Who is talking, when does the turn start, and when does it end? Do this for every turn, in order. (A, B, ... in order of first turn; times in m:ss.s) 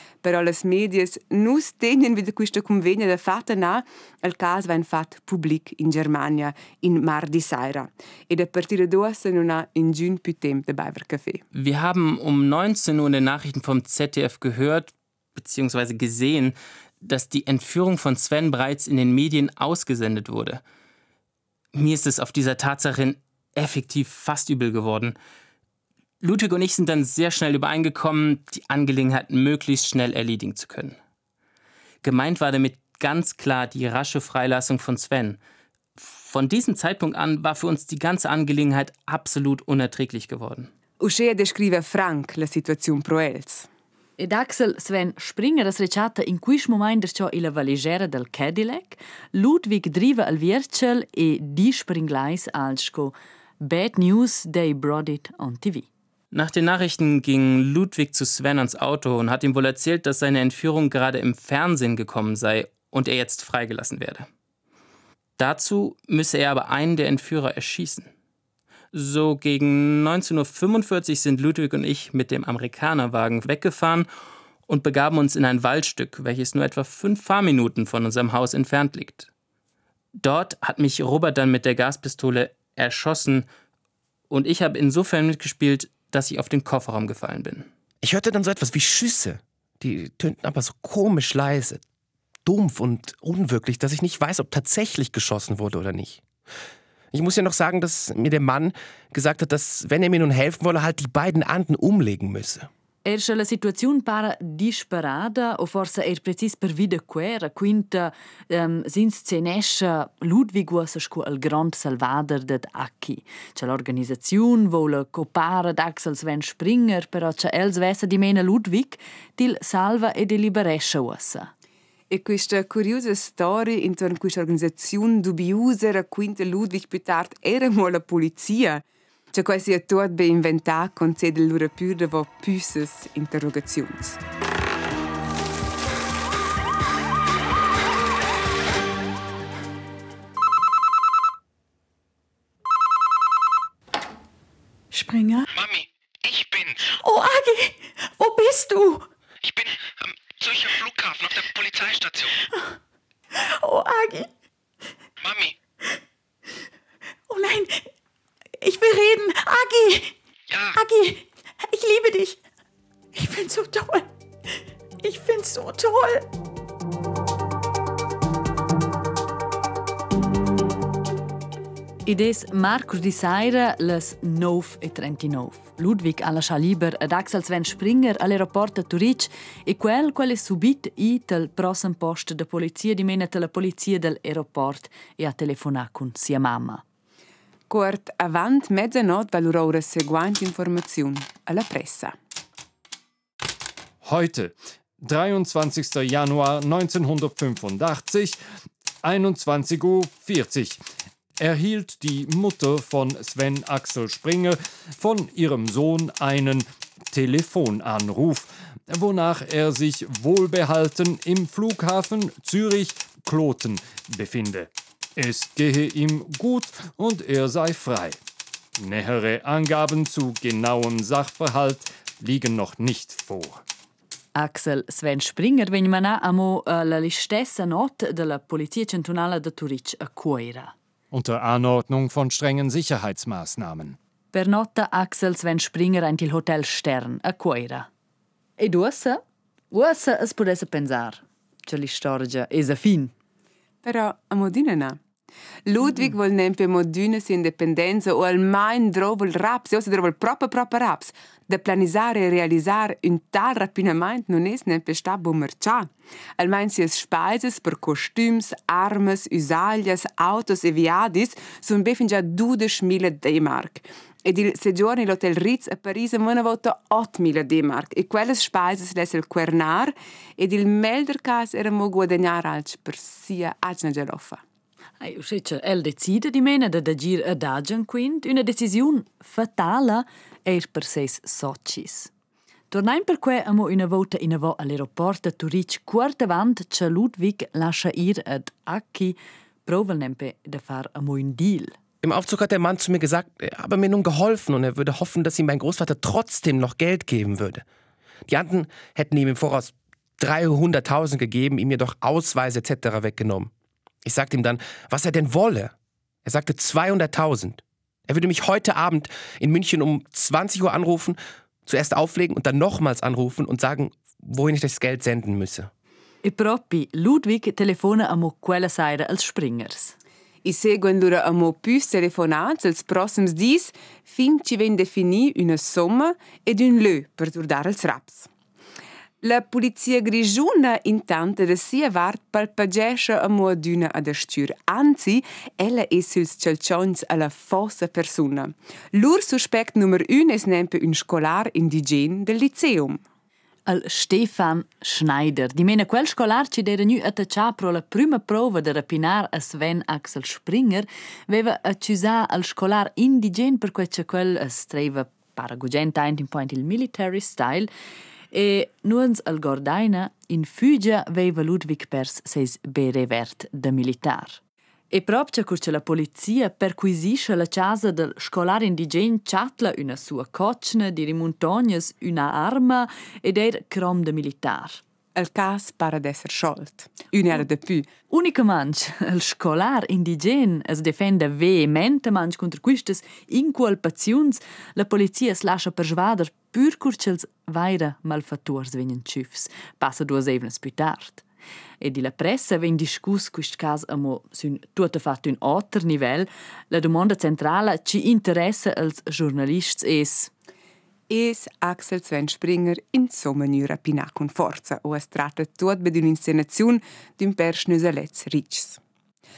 0:00.2-0:11.4 A
0:11.5-0:20.6 B
0:21.7-0:25.2 B
0:26.2-0:31.0 B
0:32.0-0:35.4 B
0:36.0-0:40.7 B
0:41.0-0:43.7 A
0:44.2-0:55.9 C
0:56.3-1:04.3 B
1:05.4-1:08.1 B
1:08.9-1:14.1 B
1:14.7-1:19.3 B
1:20.2-1:23.5 B
1:24.3-1:27.7 B
1:28.0-1:31.8 D
1:32.4-1:36.2 D
1:37.1-1:42.7 D
1:43.0-2:01.5 C
2:02.1-2:14.2 A
2:24.9-2:25.5 E
2:25.5-2:26.9 F
2:26.9-2:29.1 E
2:29.4-2:32.4 F
2:32.5-2:32.8 E
2:33.3-2:34.3 E
2:35.2-2:35.6 F
2:37.3-2:37.9 E
2:38.6-2:40.2 E
2:40.5-2:40.8 F
2:40.8-2:42.4 E
2:43.1-2:44.1 E
2:45.0-2:46.3 E
2:52.0-3:06.8 C
3:07.7-3:12.2 A
3:14.0-3:18.4 G
3:19.0-3:20.8 G
3:21.4-3:38.2 G
3:38.8-3:43.6 G
3:44.4-3:50.7 C
3:51.1-3:54.0 G
3:54.3-3:57.9 C
3:58.6-4:03.1 C
4:03.8-4:05.0 A
4:05.7-4:34.4 A
4:35.0-4:42.1 C
4:42.7-4:51.8 C
4:52.0-4:57.6 D
4:58.3-5:03.5 D
5:04.0-5:05.7 D
5:06.2-5:15.7 D
5:16.2-5:20.0 C
5:20.4-5:28.3 A
5:29.2-5:43.0 A
5:43.7-5:57.7 C
5:58.3-6:04.4 C
6:04.9-6:14.8 C
6:15.2-6:17.9 A
6:18.1-6:31.2 C
6:31.8-6:40.3 C
6:41.1-6:48.8 A